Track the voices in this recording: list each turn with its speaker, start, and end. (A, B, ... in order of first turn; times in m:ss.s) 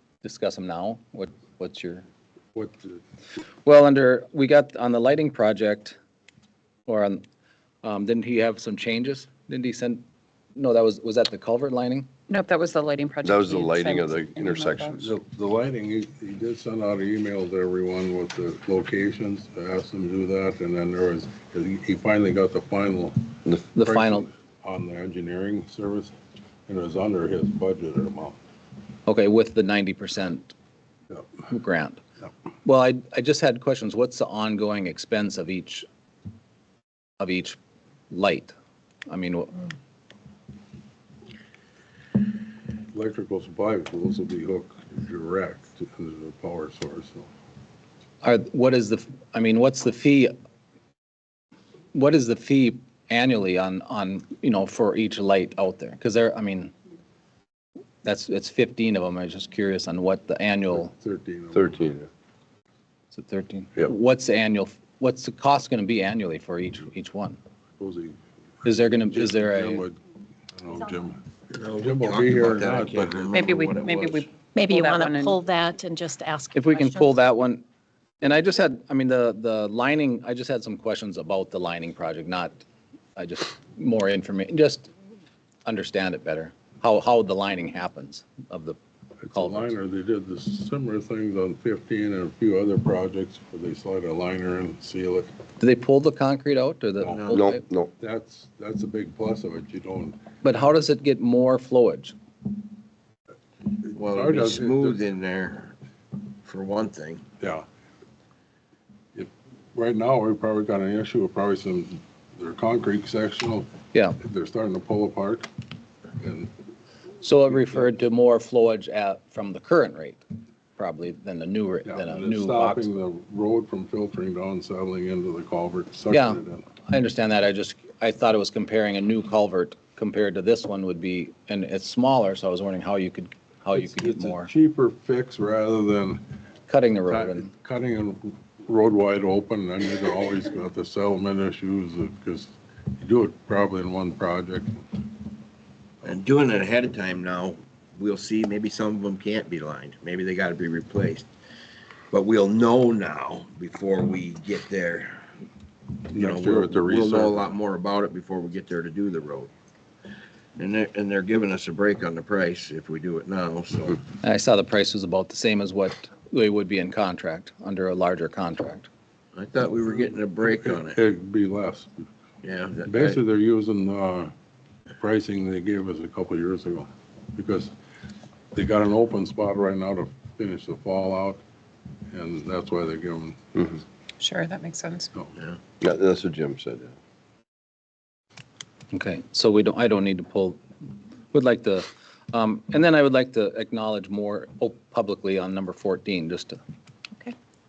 0:00.2-0:02.1 A
0:02.6-0:03.0 B
0:03.6-0:06.0 A
0:06.9-0:07.2 A
0:07.8-0:10.0 A
0:10.6-0:12.1 A
0:12.3-0:15.1 C
0:13.2-0:15.2 D
0:15.0-0:26.1 B
0:23.8-0:24.3 A
0:26.7-0:28.4 B
0:29.1-0:30.5 A
0:31.5-0:32.0 A
0:32.6-0:35.9 A
0:37.2-0:37.6 A
0:38.1-0:38.5 A
0:39.1-0:39.6 A
0:42.9-0:47.3 B
0:48.2-0:50.3 A
0:51.9-0:56.7 A
0:58.0-1:00.9 A
1:00.7-1:02.0 B
1:01.5-1:02.1 D
1:03.1-1:07.4 A
1:07.8-1:08.2 B
1:08.6-1:09.9 A
1:08.7-1:10.0 B
1:10.5-1:11.2 B
1:11.5-1:14.3 E
1:11.8-1:13.4 B
1:13.3-1:15.4 C
1:14.5-1:17.2 F
1:16.6-1:17.6 A
1:18.2-1:22.6 A
1:23.2-1:24.9 A
1:25.6-1:28.8 A
1:29.2-1:35.3 B
1:29.3-1:29.7 A
1:35.6-1:37.6 A
1:37.0-1:37.4 B
1:37.1-1:37.4 E
1:37.3-1:37.9 D
1:38.0-1:40.2 B
1:40.4-1:42.2 A
1:43.9-1:45.0 B
1:43.9-1:45.8 E
1:46.4-1:47.2 E
1:47.4-1:47.6 B
1:49.2-1:55.5 B
1:53.9-1:54.2 A
1:56.2-1:56.5 B
1:57.2-2:00.2 A
2:00.8-2:02.9 A
2:01.9-2:06.7 B
2:06.1-2:14.5 A
2:13.8-2:16.2 B
2:16.7-2:17.5 A
2:17.1-2:24.7 B
2:26.0-2:31.3 E
2:32.1-2:35.2 E
2:36.1-2:39.5 E
2:36.1-2:37.5 B
2:40.6-2:44.0 E
2:44.2-2:48.9 A
2:49.4-2:51.0 E
2:50.4-2:52.1 B
2:52.4-2:53.2 E
2:52.8-2:54.3 B
2:55.0-2:57.7 B
2:58.5-3:01.4 B
3:02.1-3:03.8 B
3:04.2-3:05.1 C
3:05.8-3:07.0 D
3:08.9-3:10.6 A
3:11.3-3:16.6 A